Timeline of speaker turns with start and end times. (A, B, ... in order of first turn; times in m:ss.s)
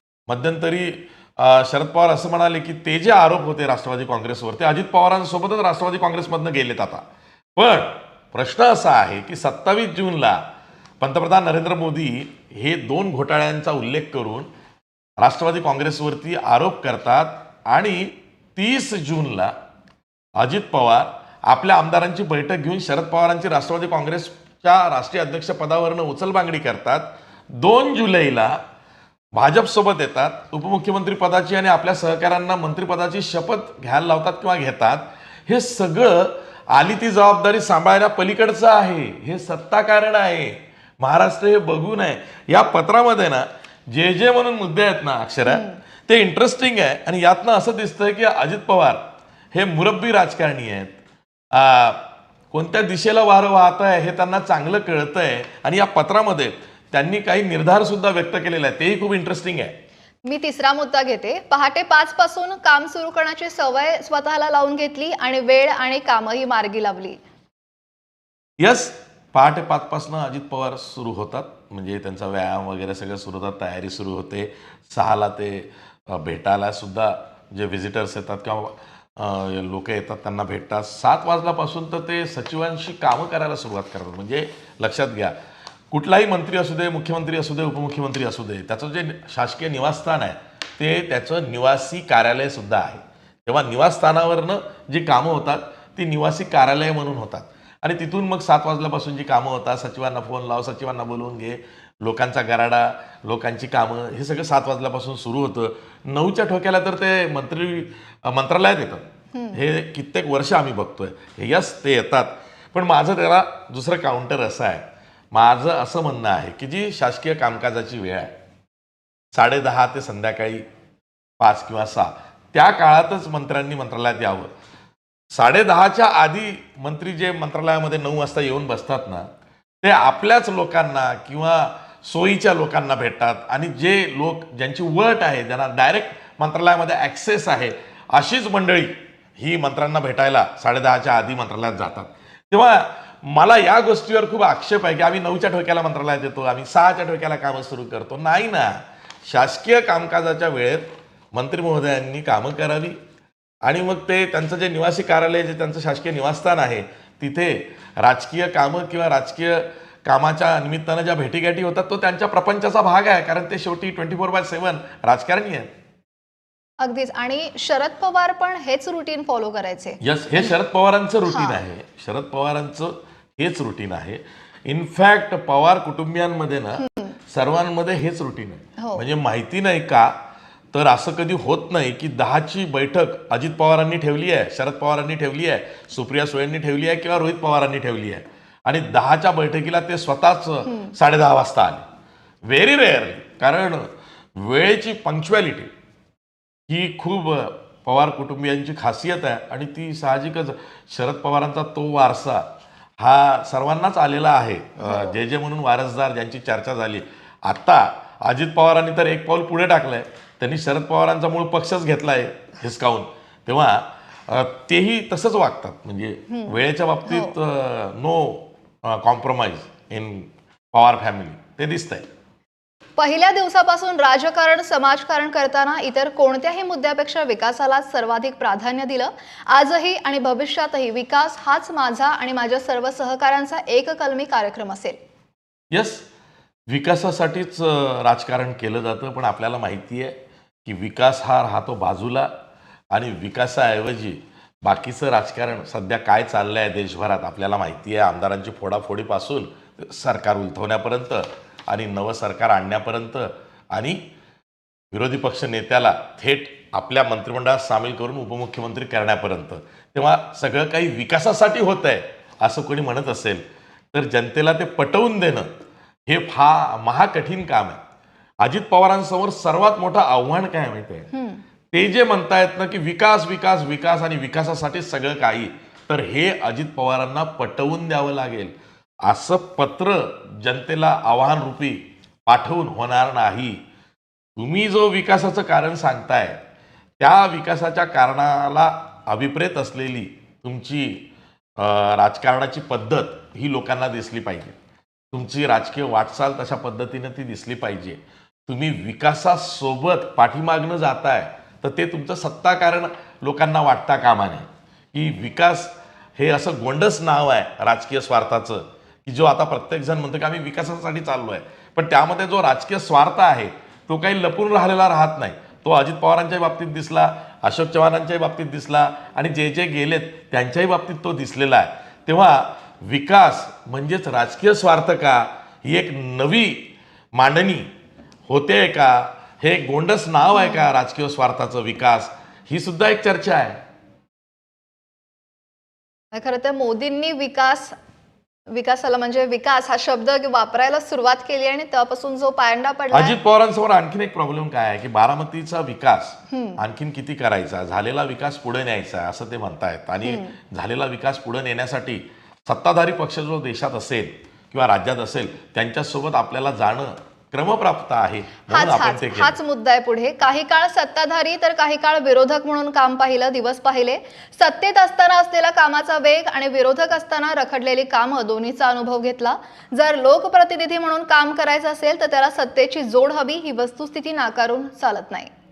0:00.3-0:07.0 A
0:07.6-0:10.4 A
0:11.0-0:14.5 A
0:15.2-0:19.5 A
0:20.4-0:28.6 A
0:29.3-0:49.0 A
0:45.4-0:45.8 B
0:49.5-0:51.0 A
0:51.5-0:59.8 A
1:00.2-1:07.2 B
1:08.6-1:25.4 A
1:25.9-1:58.4 A
1:49.3-1:49.6 B
1:59.3-2:00.6 A
2:01.4-2:04.5 A
2:05.3-2:09.3 A
2:09.8-2:33.0 A
2:33.6-2:45.7 A
2:46.8-2:50.5 B
2:50.0-3:00.2 A
2:51.3-2:51.6 B
2:56.8-2:57.2 B
3:00.7-3:11.8 A
3:10.7-3:10.9 B
3:12.4-3:15.7 A
3:16.7-3:22.5 A
3:23.0-3:42.1 A
3:24.8-3:25.2 B
3:36.3-3:37.3 B
3:43.0-3:55.0 B
3:55.7-3:56.1 A
3:56.7-4:02.3 A
4:02.9-4:14.1 A
4:14.9-4:25.5 A
4:26.1-4:27.8 A
4:28.4-4:31.1 A
4:31.1-4:31.4 B
4:31.7-4:43.6 A
4:44.4-4:46.4 A
4:47.0-4:54.6 A
4:55.1-5:27.7 A
5:28.3-5:33.6 A
5:30.3-5:30.6 B
5:36.1-5:37.8 B
5:38.5-5:43.2 B
5:42.9-5:59.4 A
5:46.3-5:46.6 B
5:50.0-5:50.4 B
5:58.5-6:15.3 B